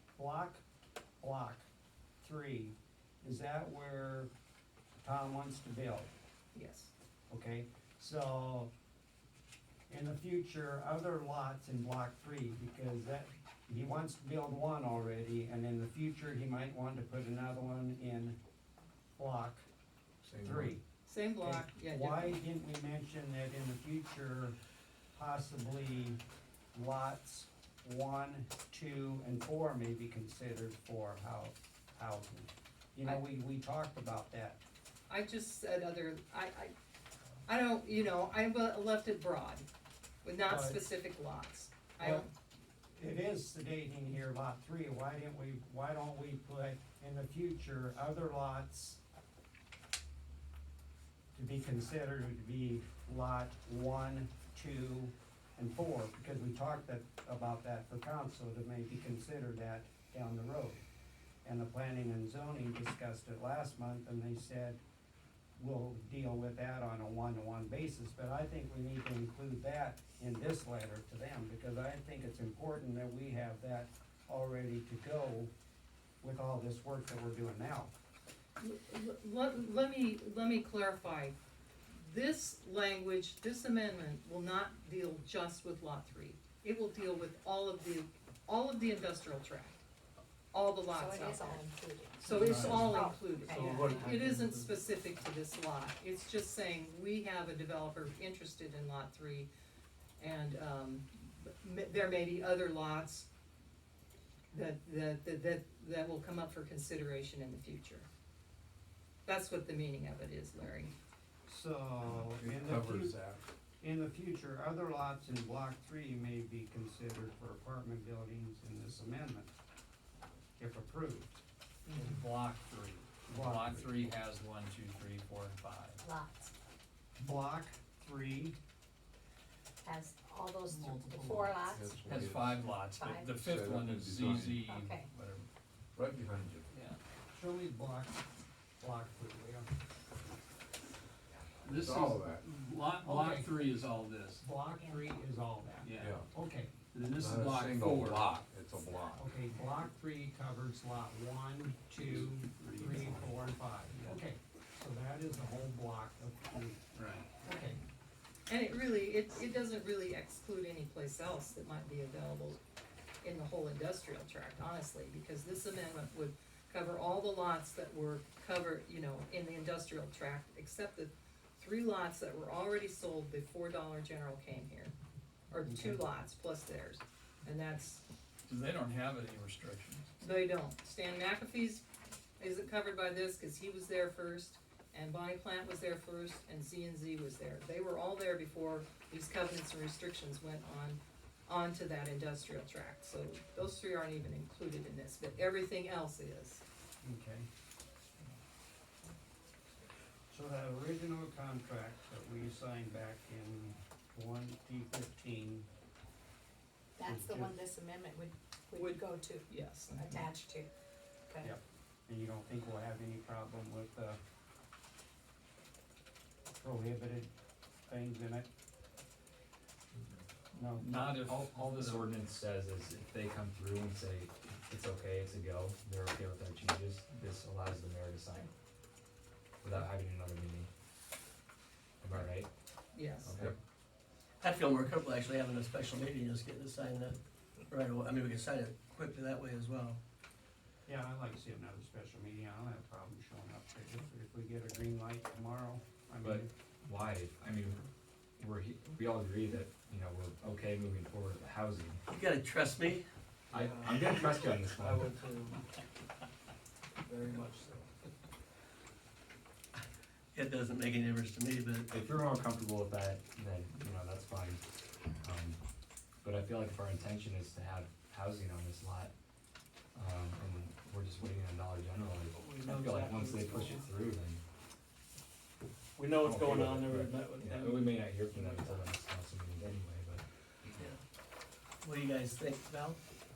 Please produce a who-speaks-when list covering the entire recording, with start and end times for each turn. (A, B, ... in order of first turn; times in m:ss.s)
0:00.2-0:00.6 A
0:01.2-0:01.6 A
0:02.2-0:04.3 A
0:05.0-0:06.1 A
0:06.5-0:06.9 B
0:07.3-0:08.7 A
0:09.9-0:18.4 A
0:19.2-0:19.7 A
0:20.2-0:20.8 C
0:20.4-0:20.8 A
0:21.0-0:22.4 B
0:21.4-0:24.6 A
0:25.1-0:26.2 A
0:26.7-0:34.6 A
0:35.1-0:36.7 B
0:37.5-0:39.6 B
0:40.2-0:42.3 B
0:40.4-0:40.8 A
0:42.0-0:42.2 A
0:42.9-0:49.0 A
0:51.3-1:00.8 A
1:01.4-1:04.8 A
1:05.6-1:15.5 A
1:16.2-1:17.9 A
1:18.6-1:21.3 B
1:21.9-1:29.8 B
1:30.5-1:31.7 B
1:31.0-1:34.1 D
1:32.2-1:39.5 B
1:32.4-1:32.8 E
1:33.5-1:34.8 F
1:40.2-1:43.3 B
1:44.5-1:48.1 B
1:49.2-1:50.9 B
1:51.4-1:53.2 A
1:52.2-1:53.4 C
1:53.8-1:59.5 A
2:00.6-2:01.3 A
2:01.9-2:06.0 E
2:03.2-2:03.9 A
2:06.0-2:06.5 D
2:07.2-2:08.6 A
2:09.8-2:12.0 D
2:10.7-2:15.4 E
2:11.7-2:12.7 C
2:12.8-2:13.4 D
2:13.3-2:14.7 C
2:14.6-2:15.1 D
2:15.9-2:16.7 C
2:16.7-2:17.0 E
2:17.3-2:18.2 A
2:18.8-2:19.6 A
2:21.6-2:24.4 E
2:21.7-2:22.4 C
2:23.0-2:23.6 A
2:24.4-2:26.7 A
2:24.7-2:25.1 D
2:25.8-2:26.2 E
2:26.0-2:26.2 C
2:26.9-2:28.3 E
2:27.1-2:29.2 C
2:29.2-2:36.8 A
2:32.0-2:34.2 E
2:36.9-2:37.3 E
2:37.4-2:37.8 A
2:38.5-2:42.6 B
2:43.2-2:54.9 B
2:55.5-2:58.0 B
2:55.7-2:56.0 A
2:58.4-3:00.0 E
3:00.2-3:01.8 B
3:02.4-3:16.6 B
3:17.0-3:17.5 A
3:20.3-3:25.7 A
3:27.0-3:30.7 D
3:27.0-3:27.5 A
3:28.8-3:30.3 B
3:31.3-3:31.6 D
3:31.4-3:34.2 A
3:36.6-3:37.3 A
3:37.9-3:38.5 A
3:40.5-3:41.1 A
3:40.8-3:42.1 E
3:41.2-3:48.5 G
3:49.6-3:50.7 G
3:52.0-3:52.5 G
3:52.9-3:53.3 B
3:53.2-3:53.5 G
3:54.4-3:57.2 F
3:57.7-4:00.0 F
4:00.9-4:06.5 A
4:06.2-4:07.8 G
4:08.4-4:12.0 G
4:12.1-4:13.0 F
4:13.5-4:15.1 G
4:13.6-4:14.0 H
4:13.9-4:14.2 F
4:14.8-4:15.6 H
4:17.1-4:17.8 H
4:20.3-4:21.9 F
4:21.9-4:24.6 G
4:25.2-4:25.6 G
4:26.2-4:29.1 G
4:29.9-4:34.4 G
4:32.4-4:33.8 F
4:36.0-4:36.7 F
4:36.2-4:40.2 G
4:36.9-4:37.9 H
4:40.7-4:41.0 F
4:41.8-4:43.0 F